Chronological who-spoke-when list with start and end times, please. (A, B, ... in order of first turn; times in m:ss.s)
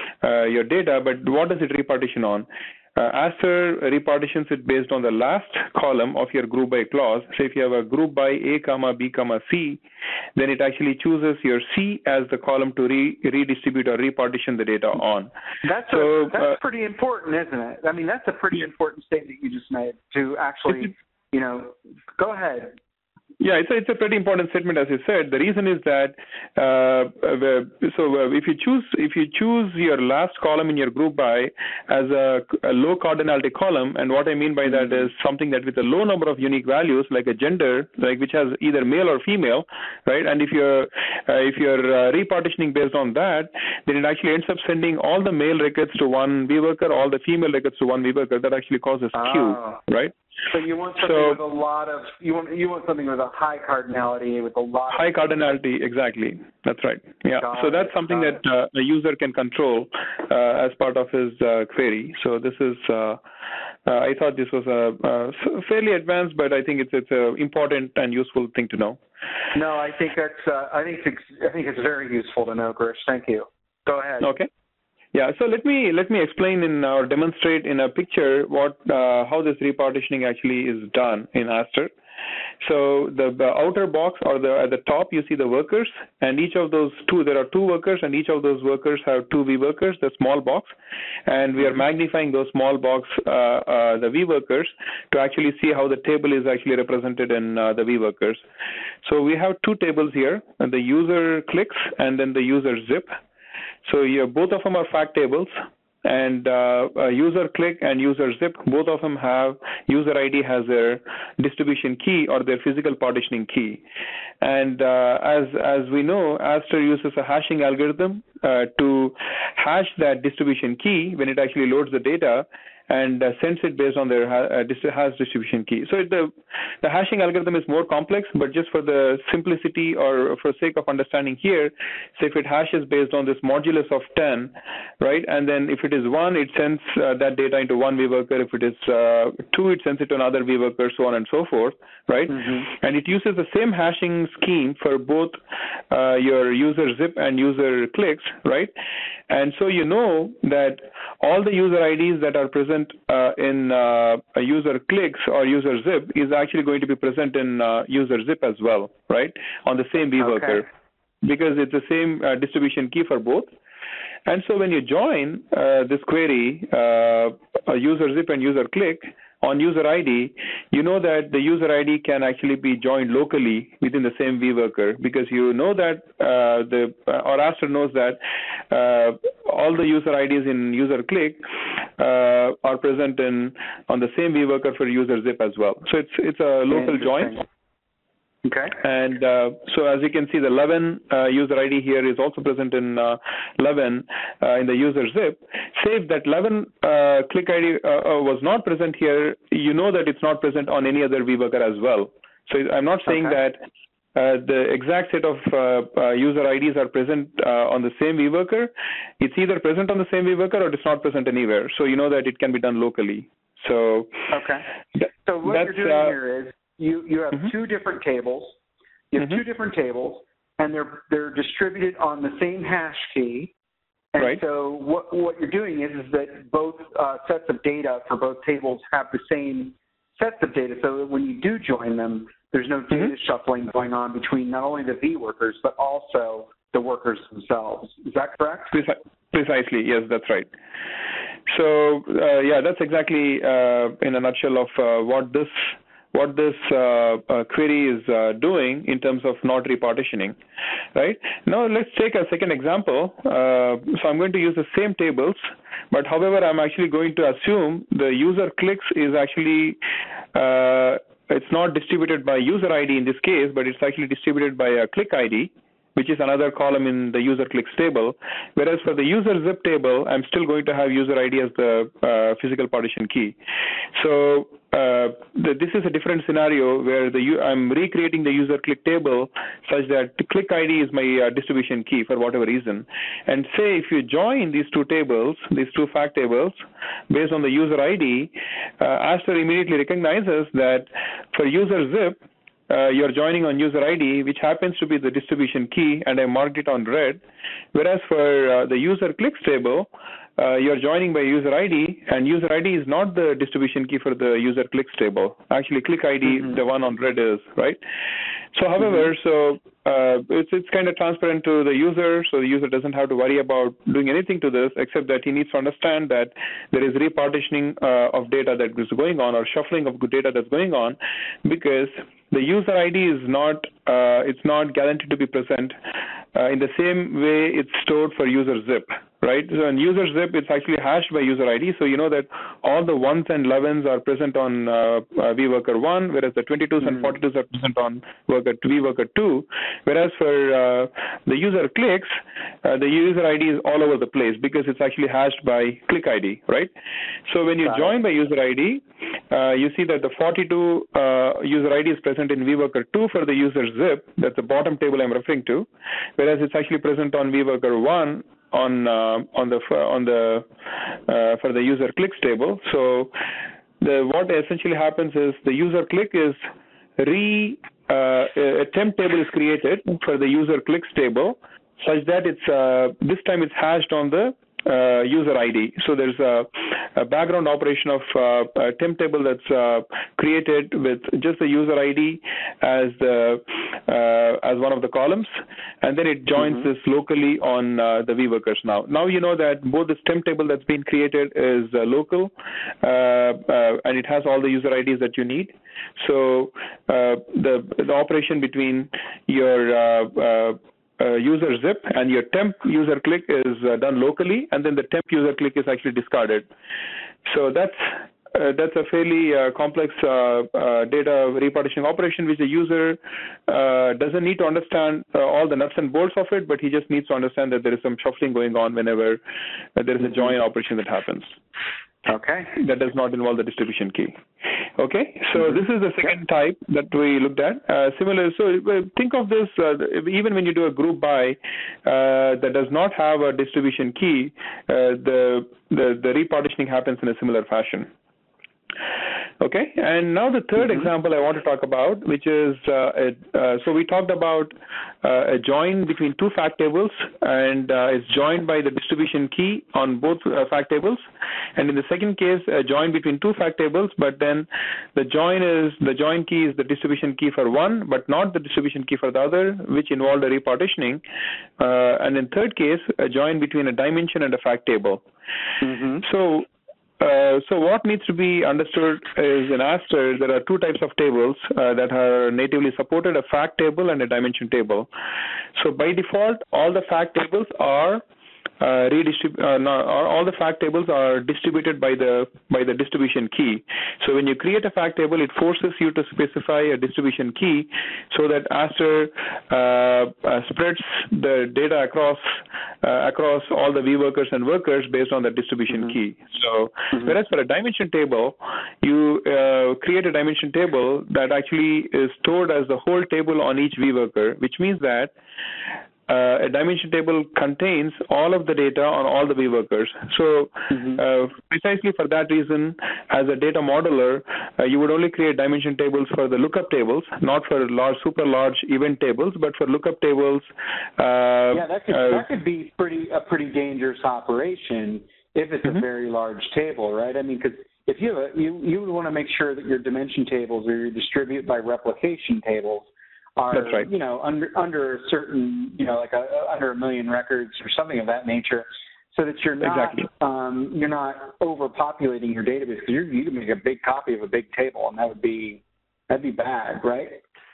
0:00.2-0:09.8 A
0:10.4-0:15.3 A
0:15.6-0:22.7 B
0:15.9-0:16.4 A
0:23.4-0:50.1 A
0:49.1-0:49.8 B
0:50.5-0:55.4 B
0:51.0-0:51.4 A
0:54.9-1:03.2 A
0:57.4-0:58.4 B
1:03.8-1:09.0 A
1:09.5-1:14.3 B
1:14.2-1:14.5 A
1:15.1-1:21.9 A
1:22.6-1:30.7 A
1:31.3-1:38.4 A
1:39.0-1:43.1 A
1:43.8-1:45.5 A
1:46.0-1:53.8 A
1:54.4-2:25.4 A
2:25.9-2:28.7 A
2:29.3-2:40.6 A
2:41.2-2:43.5 A
2:44.2-3:01.4 A
3:02.0-3:07.4 A
3:06.7-3:07.4 B
3:08.4-3:08.8 B
3:08.8-3:23.6 A
3:23.1-3:23.3 B
3:24.1-3:34.3 A
3:34.3-3:38.6 B
3:35.4-3:36.1 A
3:39.1-3:43.5 B
3:44.1-3:58.7 B
3:58.7-4:00.5 A
4:01.5-4:10.4 A
4:10.9-4:19.8 A
4:20.3-4:33.4 A
4:33.9-4:46.6 A
4:47.1-4:52.2 A
4:52.7-4:57.2 A
4:57.7-5:07.8 A
5:08.5-5:25.7 A
5:26.3-5:46.7 A
5:47.3-6:00.4 A
6:01.1-6:03.1 A
6:03.8-6:06.4 A
6:07.0-6:46.5 A
6:47.2-6:59.2 A
6:59.8-7:01.4 A
7:02.0-7:02.5 B
7:02.5-7:04.2 A
7:04.8-7:17.9 A
7:19.4-7:31.0 A
7:31.6-7:41.0 A
7:41.6-7:45.0 A
7:45.6-7:46.0 B
7:46.0-7:46.5 A
7:47.0-7:54.9 A
7:55.6-7:58.0 A
7:58.6-8:25.1 A
8:26.1-8:42.2 A
8:41.5-9:07.2 B
8:53.5-8:53.9 A
8:59.6-9:00.0 A